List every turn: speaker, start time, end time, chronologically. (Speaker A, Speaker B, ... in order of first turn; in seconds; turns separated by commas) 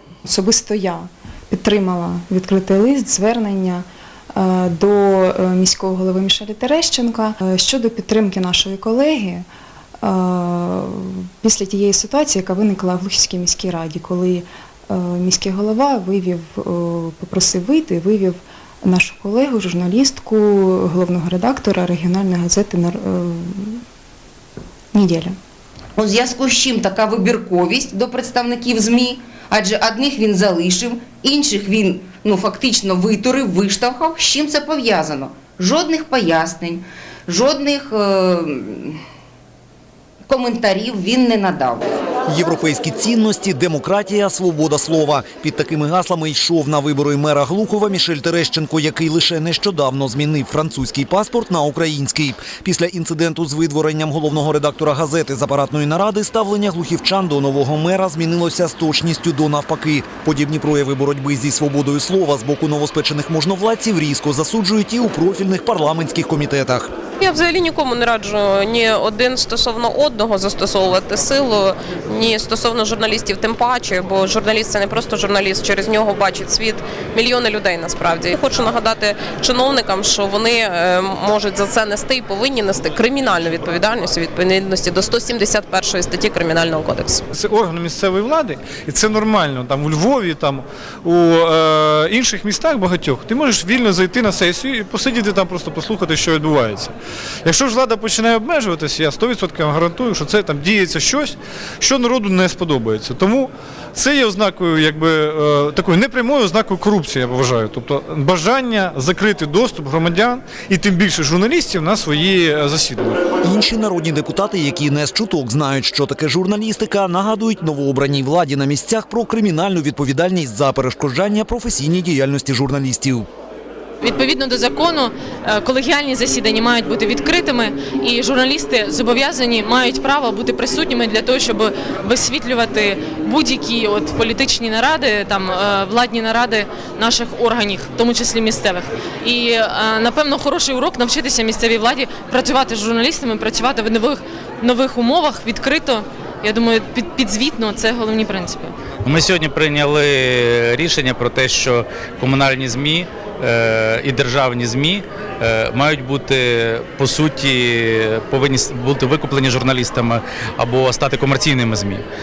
Speaker A: 0.3-9.4, Speaker A: 10.0-23.8, Speaker A: 24.9-25.4, Speaker B: 26.0-39.0, Speaker B: 40.3-41.8, Speaker C: 42.3-66.9, Speaker D: 67.2-87.2, Speaker E: 87.3-96.9, Speaker E: 97.5-113.2, Speaker C: 113.4-123.3, Speaker F: 124.0-148.7, Speaker G: 149.1-162.0